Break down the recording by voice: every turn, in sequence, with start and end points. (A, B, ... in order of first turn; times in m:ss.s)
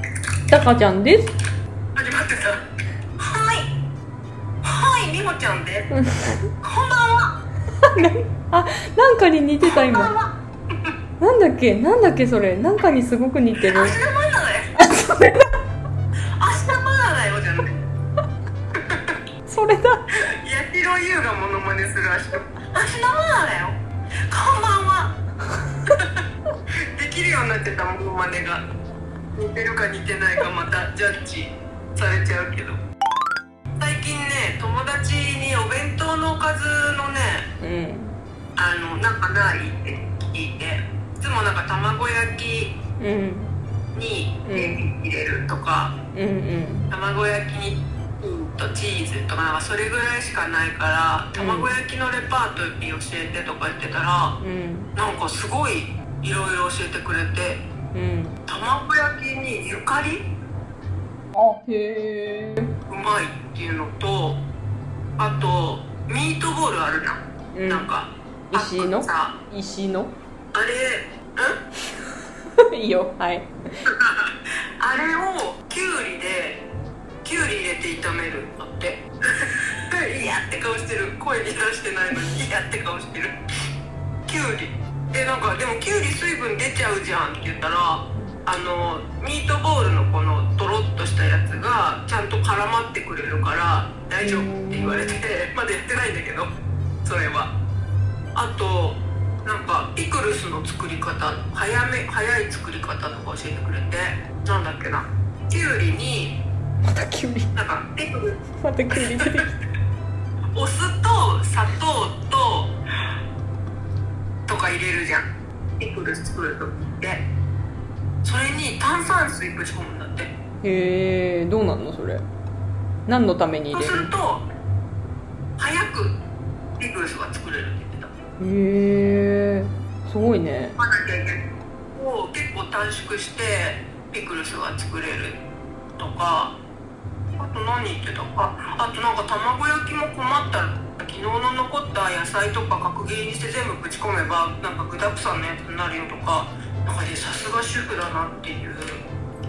0:00.5-0:01.3 A
0:01.9-0:02.6 B
0:03.2-0:03.7 B
0:04.6-0:05.9 B
0:05.9-0:06.5 A
0:06.6-0:07.3 B
0:07.8-0:10.1 A
0:09.6-0:10.9 B
0:11.2-0:14.0 A
0:13.6-0:14.7 B
0:14.8-0:15.5 A
0:16.4-0:17.8 B
0:18.7-0:19.2 B
0:19.5-0:20.1 A
0:20.2-0:23.8 B
0:24.3-0:25.2 B
0:25.9-0:26.2 B
0:26.9-0:28.6 B
0:29.3-0:32.8 B
0:33.8-0:37.5 B
0:37.6-0:38.2 A
0:38.6-0:42.8 B
0:43.0-0:43.5 A
0:43.9-0:46.0 B
0:44.4-0:44.9 A
0:46.1-0:46.9 A
0:46.9-0:54.4 B
0:51.3-0:51.7 A
0:54.4-0:54.9 A
0:54.9-0:57.6 B
0:57.9-0:58.4 A
0:58.5-1:00.3 B
1:01.3-1:02.8 A
1:02.9-1:04.4 B
1:05.2-1:09.4 B
1:07.5-1:07.9 A
1:08.5-1:10.1 A
1:10.5-1:11.6 B
1:12.6-1:13.5 A
1:13.8-1:16.6 B
1:17.2-1:23.4 B
1:24.2-1:36.5 B
1:34.2-1:35.2 A
1:37.0-1:37.5 B
1:38.3-1:46.4 B
1:46.8-1:47.5 A
1:47.5-1:48.4 B
1:48.5-1:49.6 A
1:48.9-1:49.5 B
1:50.5-1:52.7 B
1:54.5-1:55.3 B
1:55.8-1:57.2 B
1:58.2-2:00.3 B
2:00.6-2:02.2 A
2:03.1-2:04.1 A
2:03.7-2:04.5 B
2:05.6-2:06.2 B
2:06.8-2:08.1 B
2:08.4-2:10.8 A
2:10.8-2:11.4 B
2:11.9-2:15.4 B
2:16.0-2:16.6 B
2:17.4-2:29.0 B